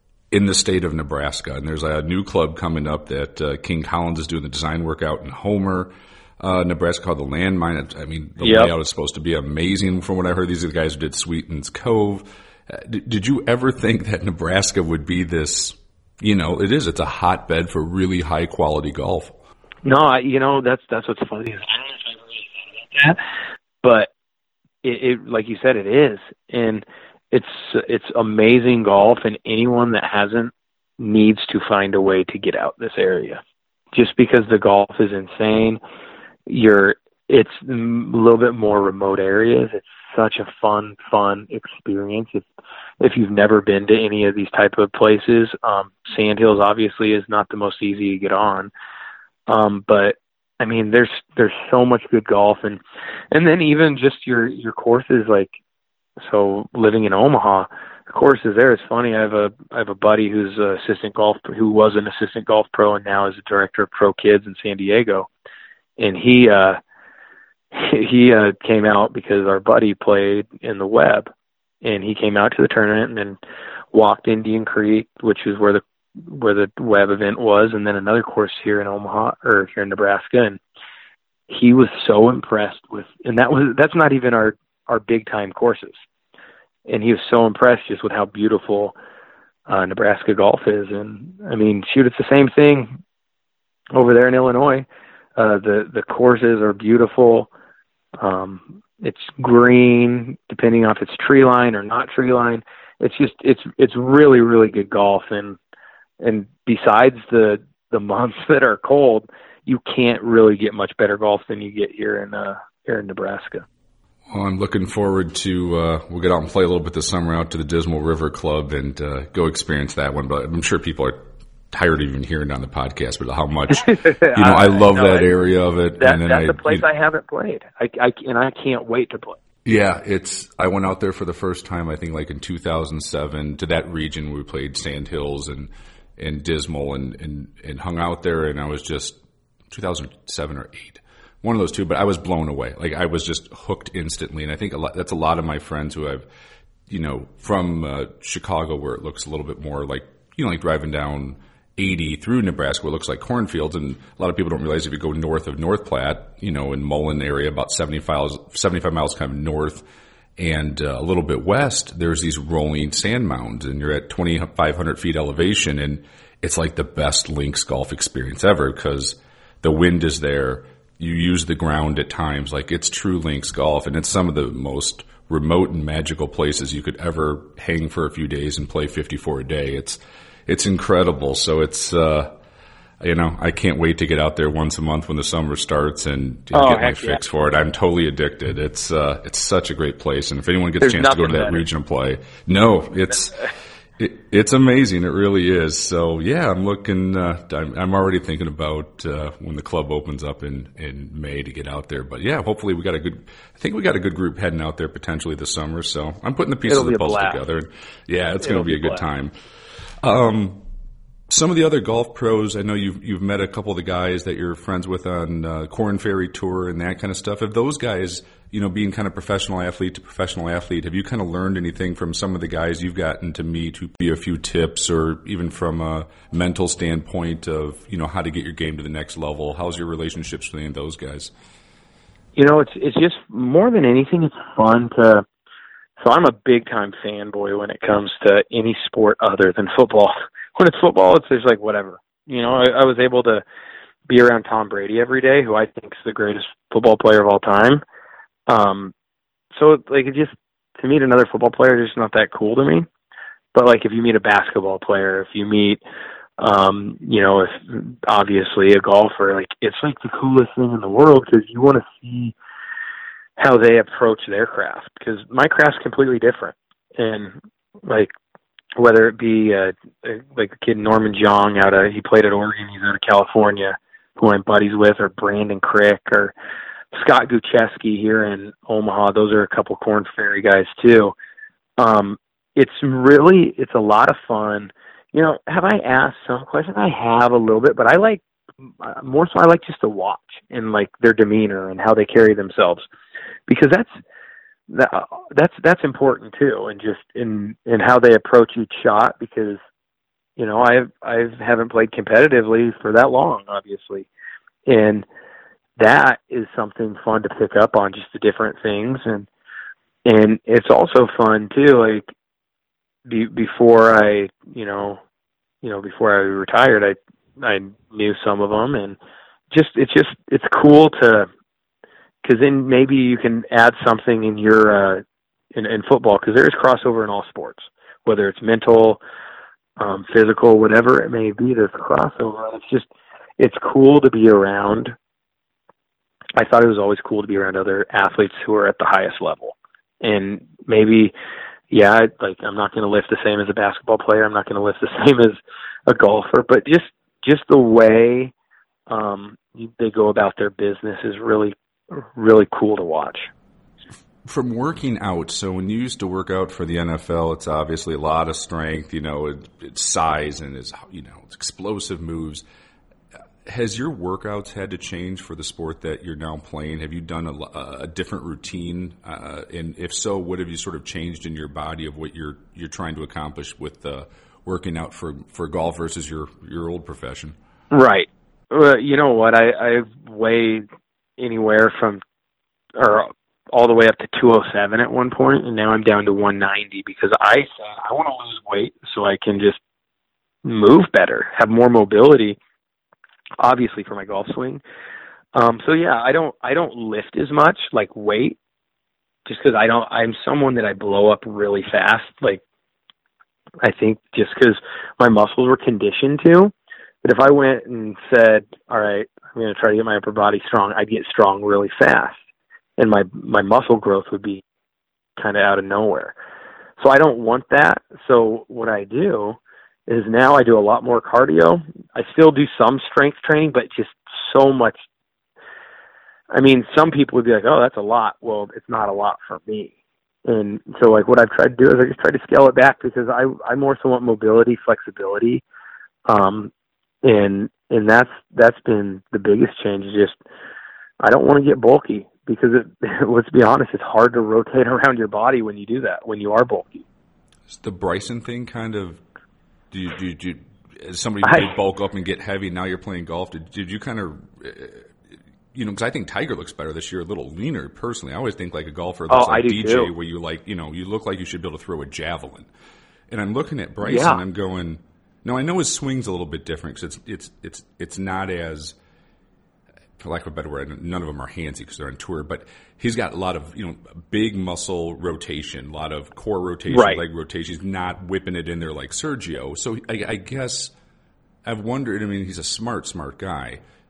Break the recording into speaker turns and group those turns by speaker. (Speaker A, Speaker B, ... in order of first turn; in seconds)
Speaker A: 0.3-19.4, 114.3-126.8, 129.6-146.2, 146.9-159.8, 160.4-182.3, 183.0-209.3, 210.0-210.6, 211.3-231.3, 354.2-362.4, 363.4-377.3, 447.5-449.0, 449.7-454.9, 455.5-462.5, 463.1-468.7, 470.0-480.7, 481.4-483.6
Speaker B: 8.4-8.7, 19.8-23.2, 23.8-24.1, 24.8-33.4, 33.9-35.8, 36.5-42.4, 43.0-48.7, 49.5-52.8, 53.3-55.5, 56.2-65.3, 66.0-66.8, 67.7-71.3, 71.8-73.4, 73.9-80.6, 81.5-86.0, 86.9-89.0, 89.7-93.0, 93.9-97.5, 98.2-105.6, 106.2-113.6, 123.7-125.3, 126.0-129.4, 186.5-187.2, 190.8-191.6, 206.7-207.4, 208.4-209.0, 232.3-235.2, 236.0-243.4, 244.1-247.8, 248.5-248.9, 249.5-252.9, 253.5-255.8, 256.4-262.3, 263.4-267.3, 267.9-268.1, 268.8-276.3, 276.9-281.1, 281.8-288.2, 288.8-292.9, 293.5-293.9, 294.7-299.6, 300.4-304.1, 304.6-305.1, 305.8-309.3, 310.1-312.0, 313.1-315.0, 315.6-319.0, 319.5-321.3, 322.2-325.0, 325.5-329.0, 329.8-334.9, 336.4-341.1, 341.7-348.3, 348.9-353.3, 377.7-380.6, 381.2-382.0, 382.8-389.6, 390.4-392.4, 393.4-394.6, 395.3-398.4, 399.2-402.4, 403.6-412.1, 412.8-414.4, 415.2-416.1, 416.8-424.9, 426.3-429.7, 430.2-435.4, 436.1-436.5, 437.0-440.2, 441.0-446.8, 451.2-451.5, 459.1-459.9, 463.8-464.2, 476.7-477.0